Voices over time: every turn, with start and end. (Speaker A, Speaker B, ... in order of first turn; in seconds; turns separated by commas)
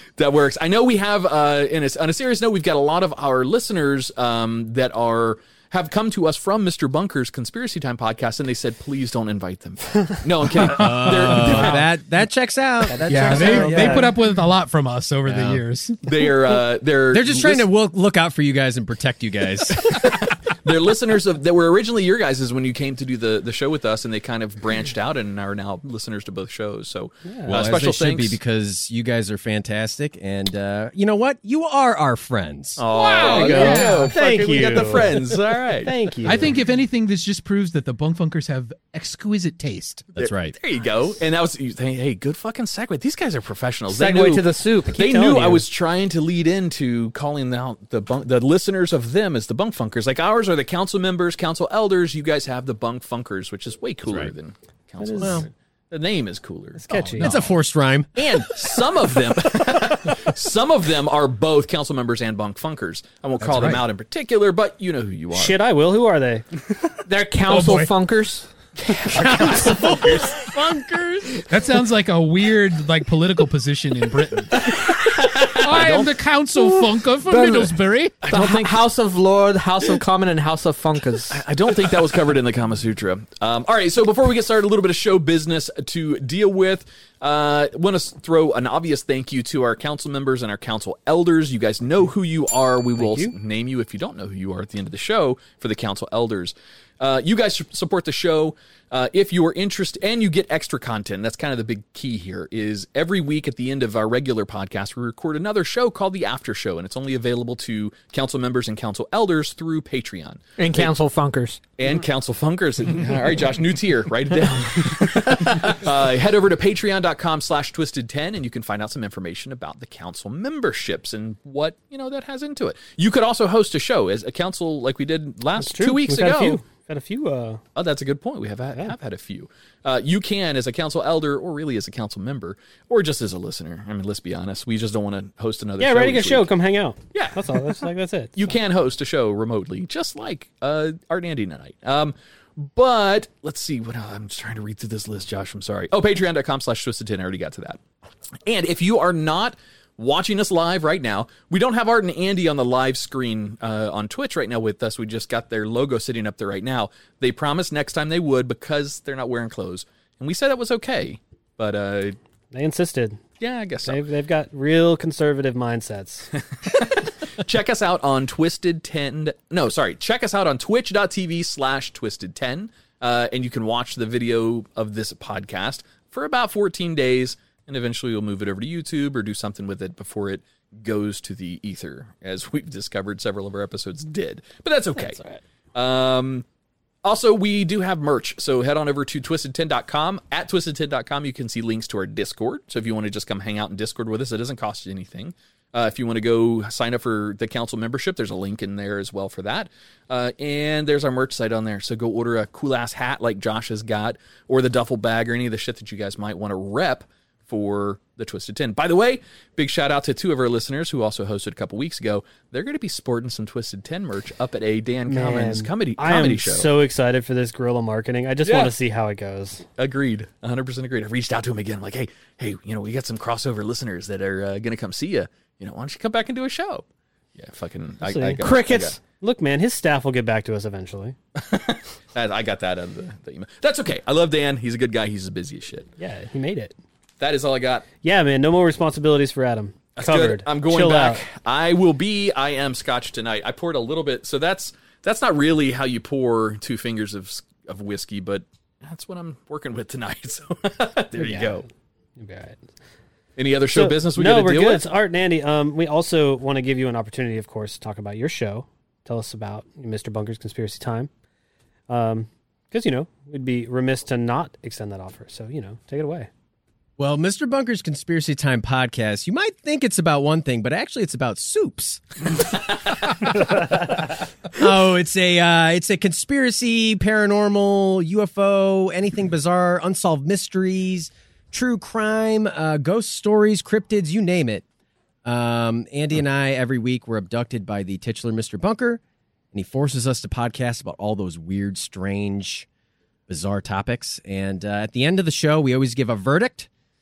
Speaker A: 0.2-11.9, Speaker B: 10.6-14.1, Speaker C: 10.6-11.9, Speaker D: 12.9-14.1, Speaker C: 13.1-16.0, Speaker B: 15.3-15.6, Speaker A: 16.1-17.7, Speaker B: 17.1-19.9, Speaker A: 19.9-28.4, Speaker D: 27.3-27.6, Speaker B: 27.4-33.9, Speaker A: 32.8-36.0, Speaker C: 32.9-34.1, Speaker D: 33.2-36.5, Speaker C: 36.2-40.1, Speaker A: 40.1-57.0, Speaker B: 40.2-40.5, Speaker E: 43.9-45.6, Speaker B: 54.0-54.3, Speaker D: 55.0-55.5, Speaker B: 55.2-55.5, Speaker D: 56.8-57.3, Speaker C: 56.9-57.6, Speaker B: 57.2-58.1, Speaker A: 58.1-65.6, Speaker C: 63.4-63.8, Speaker D: 65.3-66.5, Speaker E: 67.1-68.5, Speaker C: 67.5-67.9, Speaker C: 69.1-70.3, Speaker B: 69.1-71.3, Speaker C: 71.5-74.6, Speaker E: 75.0-76.1, Speaker C: 75.6-78.3, Speaker E: 77.3-77.8, Speaker A: 78.2-78.8, Speaker E: 78.3-81.4, Speaker A: 81.3-110.9, Speaker D: 93.0-93.3, Speaker E: 110.6-111.6, Speaker A: 111.8-126.6, Speaker C: 112.9-113.2, Speaker E: 115.4-115.7, Speaker D: 125.6-127.6, Speaker A: 127.8-136.5, Speaker D: 135.8-138.6, Speaker A: 137.1-137.4, Speaker A: 138.4-147.8, Speaker A: 148.4-162.2, Speaker D: 162.5-163.2, Speaker A: 163.4-164.0, Speaker D: 163.9-166.3, Speaker A: 166.6-185.2, Speaker D: 185.0-185.4, Speaker A: 185.8-186.4, Speaker A: 187.0-216.7, Speaker D: 215.1-219.6, Speaker A: 218.5-218.7, Speaker A: 219.8-226.8, Speaker A: 227.4-229.0, Speaker D: 228.0-228.4, Speaker E: 228.4-229.0, Speaker D: 229.1-231.2, Speaker A: 231.4-235.9, Speaker D: 236.0-236.7, Speaker A: 237.2-237.9, Speaker D: 238.0-241.2, Speaker A: 240.0-251.7, Speaker D: 251.2-251.6, Speaker D: 252.2-252.7, Speaker A: 253.4-254.9, Speaker D: 253.7-261.1, Speaker D: 261.9-266.3, Speaker B: 267.0-272.0, Speaker B: 274.6-284.6, Speaker B: 285.2-289.0, Speaker B: 289.5-292.7, Speaker B: 293.3-296.7